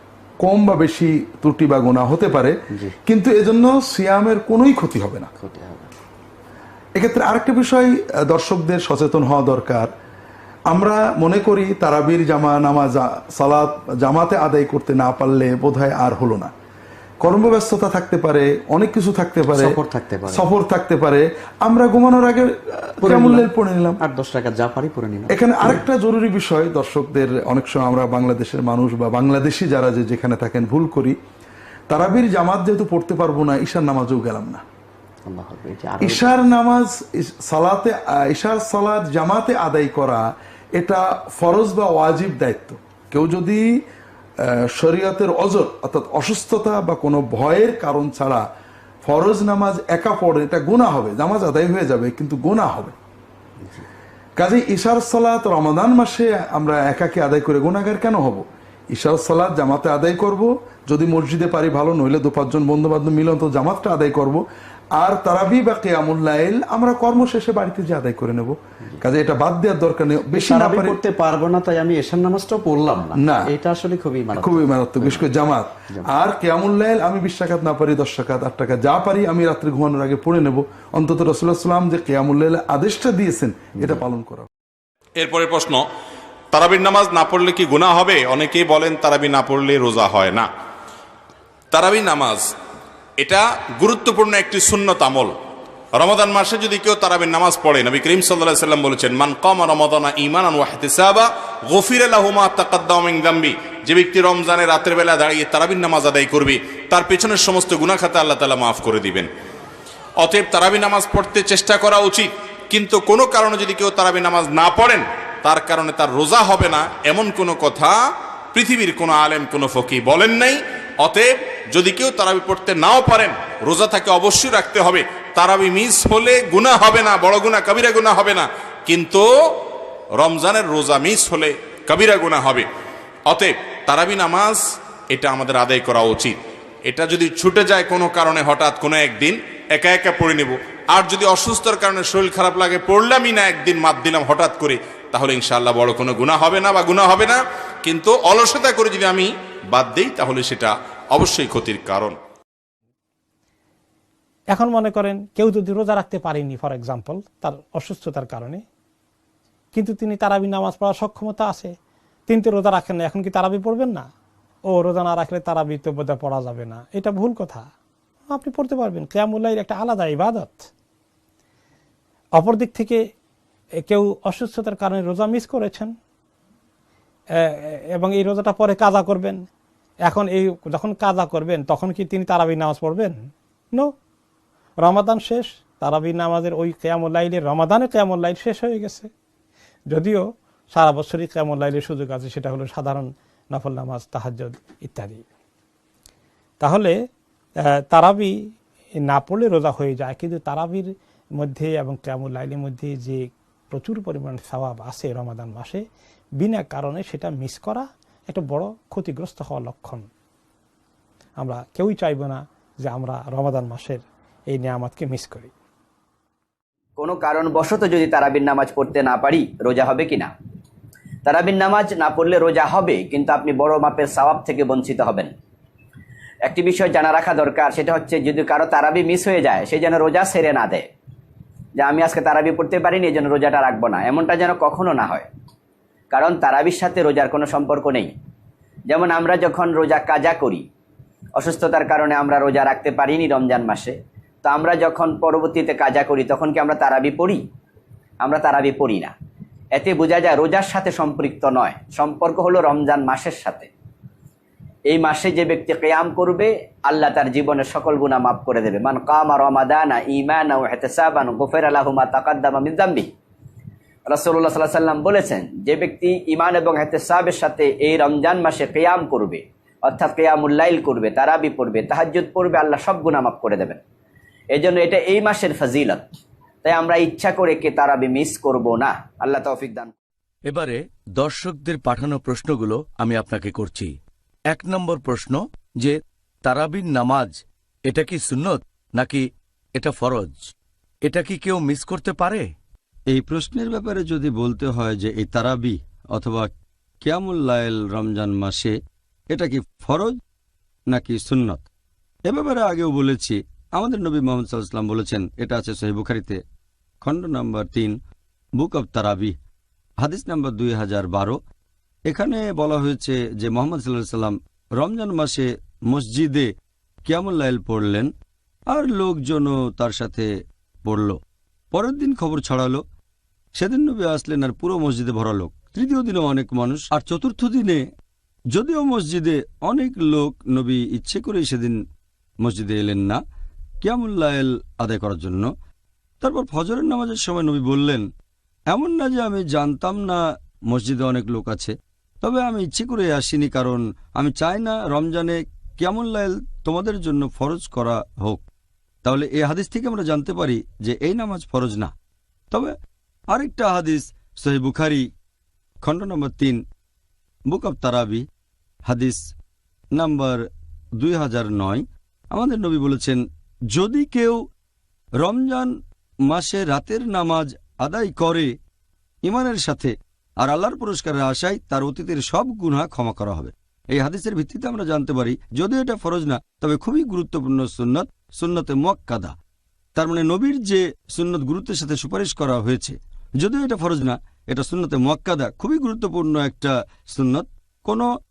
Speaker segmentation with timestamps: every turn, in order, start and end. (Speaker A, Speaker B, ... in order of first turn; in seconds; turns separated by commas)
Speaker A: 0.4-2.5, Speaker A: 3.1-5.3, Speaker B: 5.4-5.9, Speaker A: 7.0-9.9, Speaker A: 10.7-16.5, Speaker A: 17.2-24.0, Speaker B: 19.5-20.5, Speaker B: 23.0-23.5, Speaker B: 24.0-25.8, Speaker A: 25.3-31.2, Speaker A: 31.9-34.6, Speaker B: 35.3-36.3, Speaker A: 36.0-40.2, Speaker A: 40.8-43.6, Speaker A: 44.8-48.4, Speaker A: 49.0-53.0, Speaker A: 54.4-64.4, Speaker A: 65.0-71.0, Speaker B: 70.3-75.3, Speaker A: 73.2-73.5, Speaker A: 74.4-84.5, Speaker C: 85.2-85.8, Speaker C: 86.5-90.5, Speaker C: 91.7-92.5, Speaker C: 93.2-95.3, Speaker C: 96.0-109.3, Speaker C: 110.2-118.0, Speaker C: 118.5-129.2, Speaker C: 130.2-132.7, Speaker C: 133.3-152.2, Speaker D: 154.5-158.6, Speaker D: 159.8-161.7, Speaker D: 162.3-164.1, Speaker D: 164.7-167.7, Speaker D: 168.3-170.7, Speaker D: 172.4-173.0, Speaker D: 173.9-175.9, Speaker D: 177.4-179.4, Speaker D: 180.1-183.2, Speaker D: 184.8-189.1, Speaker D: 189.9-195.2, Speaker D: 196.6-197.0, Speaker D: 197.9-198.4, Speaker D: 199.1-205.8, Speaker D: 206.4-210.1, Speaker D: 211.4-215.5, Speaker E: 217.0-220.3, Speaker E: 221.2-225.3, Speaker E: 226.5-230.9, Speaker E: 231.8-235.3, Speaker E: 236.1-238.1, Speaker E: 238.9-240.7, Speaker E: 241.4-247.4, Speaker E: 248.2-249.1, Speaker E: 249.8-253.7, Speaker E: 254.9-263.1, Speaker E: 264.1-273.8, Speaker E: 274.5-276.1, Speaker E: 276.6-279.9, Speaker F: 280.5-284.0, Speaker F: 284.5-292.5, Speaker G: 293.1-296.5, Speaker G: 297.0-298.8, Speaker G: 299.3-300.2, Speaker G: 300.9-301.7, Speaker G: 302.3-306.4, Speaker G: 307.0-307.9, Speaker G: 308.6-309.4, Speaker G: 310.0-311.4, Speaker G: 312.1-316.5, Speaker G: 317.1-318.1, Speaker G: 318.7-320.3, Speaker G: 320.8-321.2, Speaker G: 321.7-322.8, Speaker G: 323.6-327.8, Speaker G: 328.5-331.8, Speaker G: 332.4-333.2, Speaker G: 333.8-335.5, Speaker G: 336.2-338.1, Speaker G: 338.7-348.4, Speaker G: 349.0-351.9, Speaker G: 353.3-355.1, Speaker G: 355.8-356.6, Speaker G: 357.5-358.2, Speaker G: 358.9-359.3, Speaker G: 359.9-360.4, Speaker G: 361.0-364.4, Speaker G: 365.2-365.7, Speaker G: 366.3-368.5, Speaker G: 369.2-379.4, Speaker G: 379.9-388.1